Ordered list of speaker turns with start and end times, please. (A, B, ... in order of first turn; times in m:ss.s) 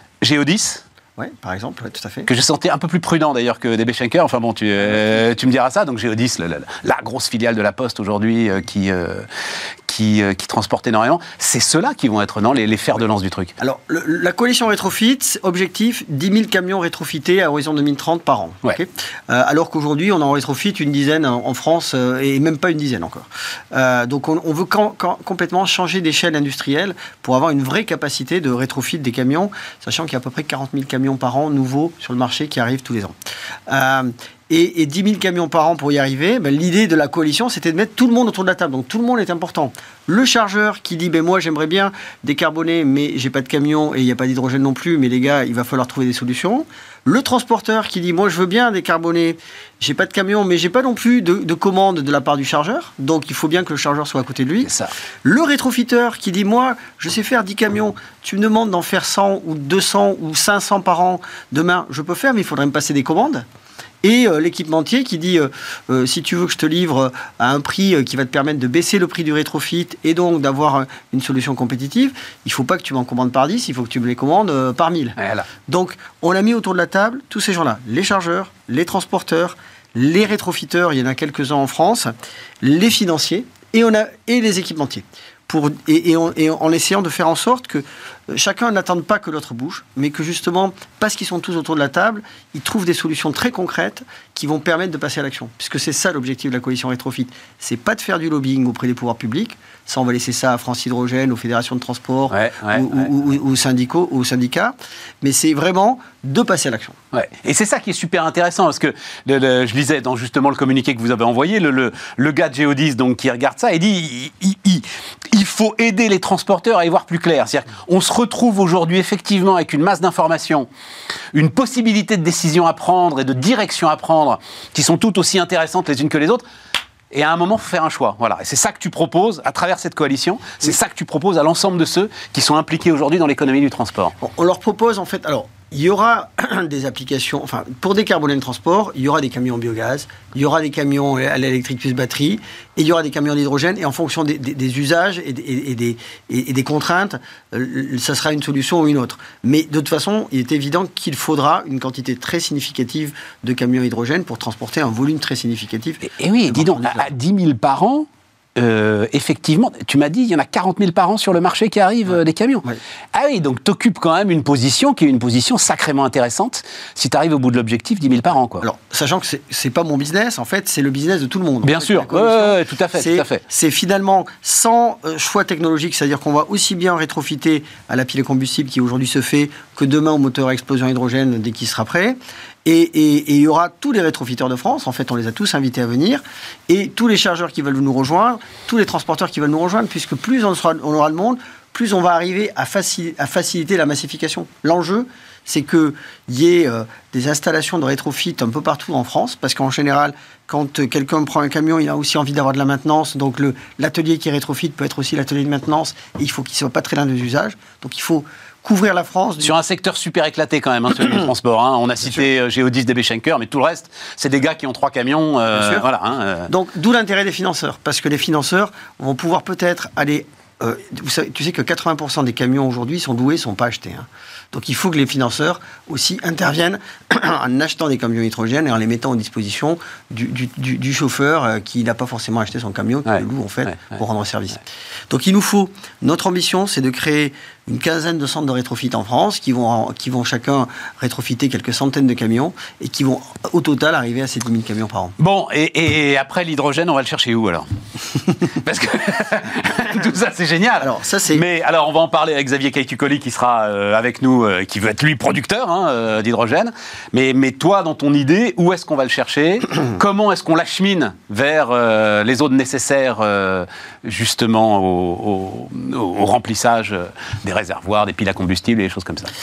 0:00.2-0:00.8 A
0:01.2-0:02.3 B
0:02.3-0:09.3 A
0:09.9-0:13.5 A
0:13.6-0:33.2 B
0:33.7-0:54.7 B
0:54.6-0:54.9 A
0:55.2-1:03.4 B
1:04.0-1:47.0 B
1:15.2-1:15.5 A
1:42.3-1:43.0 A
1:47.1-2:00.7 A
2:01.3-2:06.4 A
2:07.1-2:14.1 A
2:14.2-2:37.1 B
2:36.1-2:48.7 A
2:48.6-3:29.6 B
2:51.6-2:53.4 A
3:29.4-3:36.5 A
3:35.5-3:35.8 B
3:36.5-4:05.2 B
3:53.1-3:53.7 A
4:05.2-4:29.3 A
4:10.8-4:11.4 B